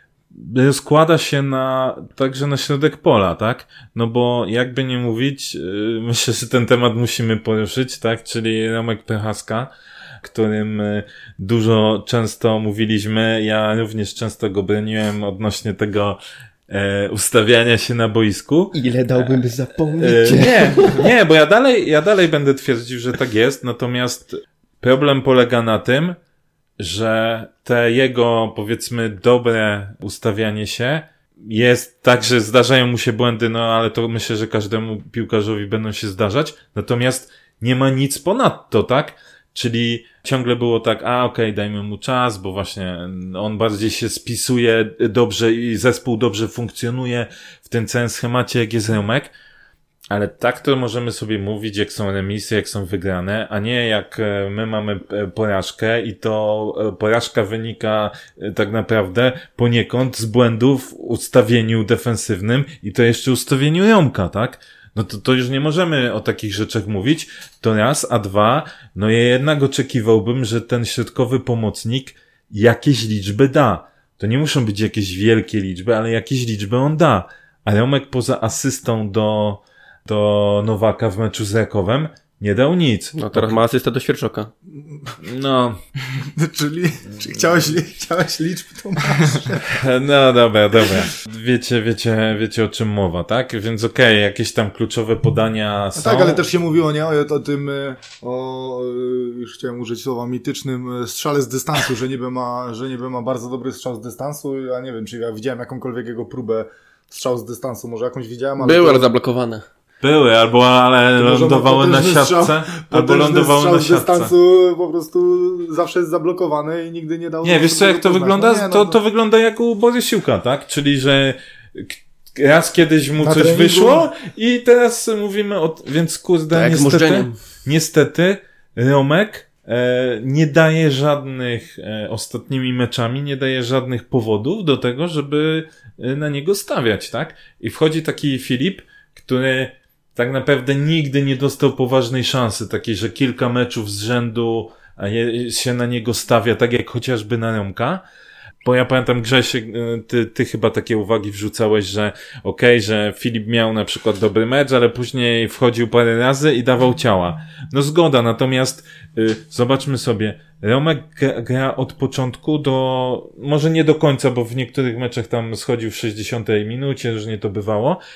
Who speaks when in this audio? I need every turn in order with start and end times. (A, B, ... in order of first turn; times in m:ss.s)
0:00.3-0:09.7 A
0:10.2-0:16.2 A
0:16.7-0:19.4 A
0:18.7-0:21.1 B
0:20.0-0:26.2 A
0:26.8-0:49.3 A
0:50.1-1:23.5 A
1:23.2-1:24.5 B
1:24.8-1:25.1 C
1:25.2-1:25.8 A
1:26.2-1:29.7 C
1:29.7-1:36.4 A
1:36.0-1:49.1 C
1:48.6-1:49.6 B
1:50.0-1:54.3 A
1:51.2-1:59.0 C
1:57.4-2:28.0 A
2:03.2-2:04.1 C
2:06.5-2:07.4 B
2:28.6-2:48.0 A